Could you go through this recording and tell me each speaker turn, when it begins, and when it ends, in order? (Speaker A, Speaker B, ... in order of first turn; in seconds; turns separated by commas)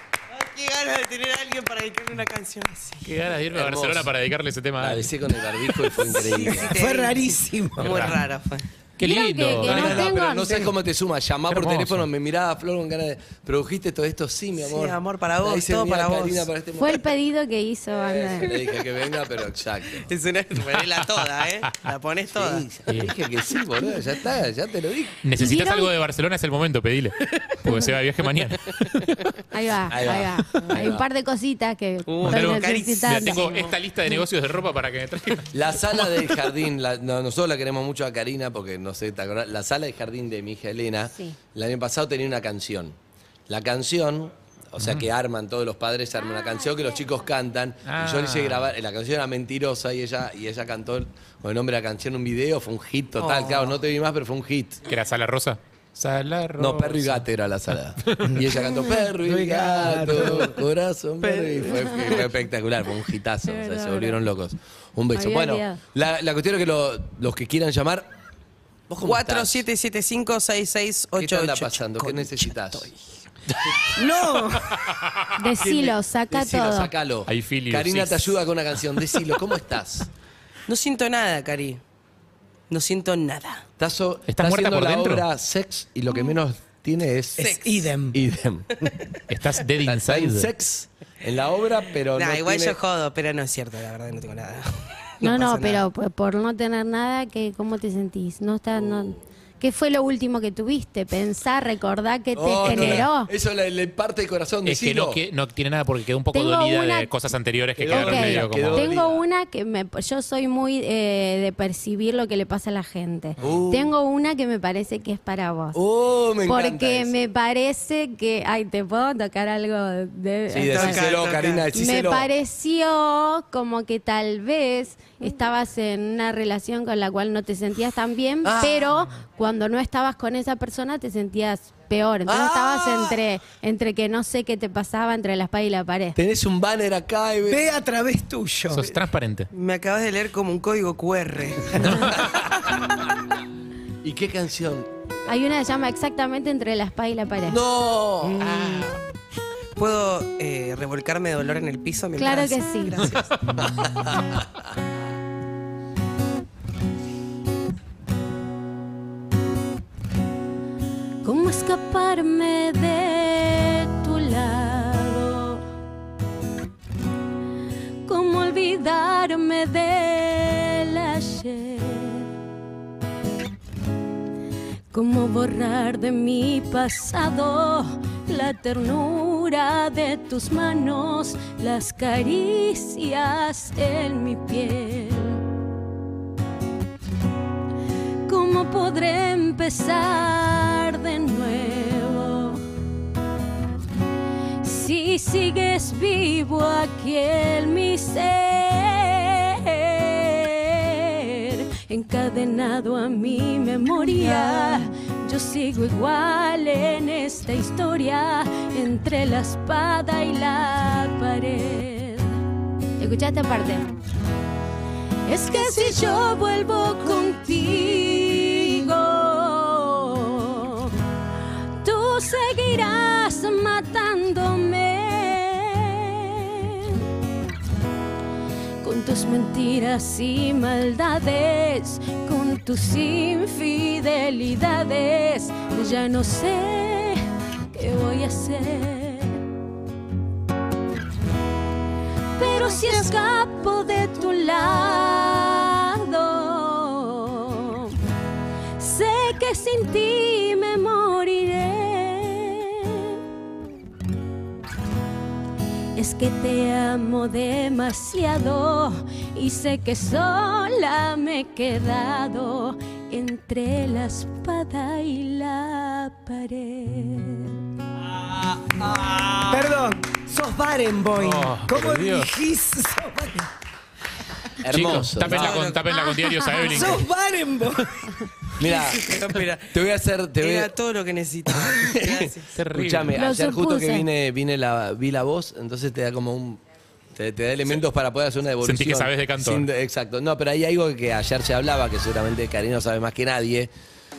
Speaker A: 0.3-3.1, Speaker B: 3.0-5.1, Speaker C: 3.5-4.1, Speaker C: 4.8-6.7, Speaker A: 6.0-8.7, Speaker D: 6.3-8.0, Speaker B: 7.8-8.2, Speaker B: 9.0-10.1, Speaker E: 9.0-10.7, Speaker C: 9.5-17.0, Speaker B: 11.5-12.1, Speaker A: 14.6-16.5, Speaker E: 16.8-18.5, Speaker C: 18.0-20.1, Speaker A: 20.1-22.7, Speaker C: 22.3-25.2, Speaker B: 22.9-23.1, Speaker B: 25.2-29.2, Speaker E: 25.4-25.9, Speaker E: 29.5-33.6, Speaker C: 29.9-31.1, Speaker A: 32.1-33.8, Speaker B: 32.2-35.5, Speaker C: 35.5-43.0, Speaker C: 43.5-54.8, Speaker B: 44.8-45.1, Speaker B: 47.9-48.7, Speaker A: 53.2-53.8, Speaker B: 54.9-57.2, Speaker C: 56.6-68.1, Speaker D: 59.2-60.6, Speaker A: 61.2-62.3, Speaker E: 63.5-64.2, Speaker E: 65.1-65.8, Speaker C: 68.9-69.7, Speaker A: 69.0-73.0, Speaker C: 71.2-72.9, Speaker D: 74.0-74.6, Speaker A: 74.0-74.5, Speaker E: 75.4-76.9, Speaker C: 75.6-80.1, Speaker B: 77.3-78.4, Speaker A: 80.7-81.8, Speaker A: 82.7-83.7, Speaker C: 83.8-87.6, Speaker B: 84.3-85.2, Speaker A: 87.4-87.7, Speaker D: 87.5-88.2, Speaker C: 88.1-88.8, Speaker B: 89.3-90.5, Speaker C: 89.8-92.8, Speaker A: 92.2-95.9, Speaker E: 95.2-103.3, Speaker C: 98.8-99.2, Speaker C: 102.3-105.2, Speaker B: 104.7-108.9, Speaker E: 106.3-107.1, Speaker C: 107.8-109.2, Speaker E: 107.9-115.8, Speaker C: 113.4-113.9, Speaker C: 115.7-117.2, Speaker E: 116.5-121.0, Speaker C: 120.5-122.3, Speaker A: 120.7-121.7, Speaker E: 121.7-136.2, Speaker C: 128.4-129.0, Speaker C: 132.3-133.2, Speaker C: 136.2-137.7, Speaker D: 137.5-138.9, Speaker B: 138.7-139.5, Speaker A: 139.5-142.1, Speaker C: 141.9-142.7, Speaker C: 144.0-144.9, Speaker E: 145.3-147.6, Speaker C: 147.5-148.5, Speaker B: 148.4-149.0, Speaker A: 149.8-153.3, Speaker E: 152.2-153.1, Speaker C: 153.6-154.4, Speaker E: 161.2-165.6, Speaker E: 168.1-172.3, Speaker E: 174.9-185.4, Speaker E: 188.3-192.6, Speaker E: 194.6-212.4, Speaker E: 213.0-213.9, Speaker E: 215.3-220.9, Speaker A: 215.5-216.2, Speaker E: 221.8-227.0, Speaker E: 228.8-239.4, Speaker E: 242.4-247.9, Speaker A: 242.7-243.1, Speaker E: 248.8-253.1, Speaker E: 256.0-267.6, Speaker D: 268.7-273.5, Speaker B: 271.1-272.3, Speaker C: 274.6-275.6, Speaker B: 274.7-277.1, Speaker A: 275.2-276.0, Speaker D: 276.7-277.9, Speaker C: 278.6-279.2, Speaker A: 278.6-279.8, Speaker C: 279.7-280.7, Speaker A: 280.4-282.6, Speaker C: 281.6-286.6, Speaker B: 282.6-283.1, Speaker E: 283.1-284.1, Speaker C: 287.1-293.7, Speaker B: 288.6-289.7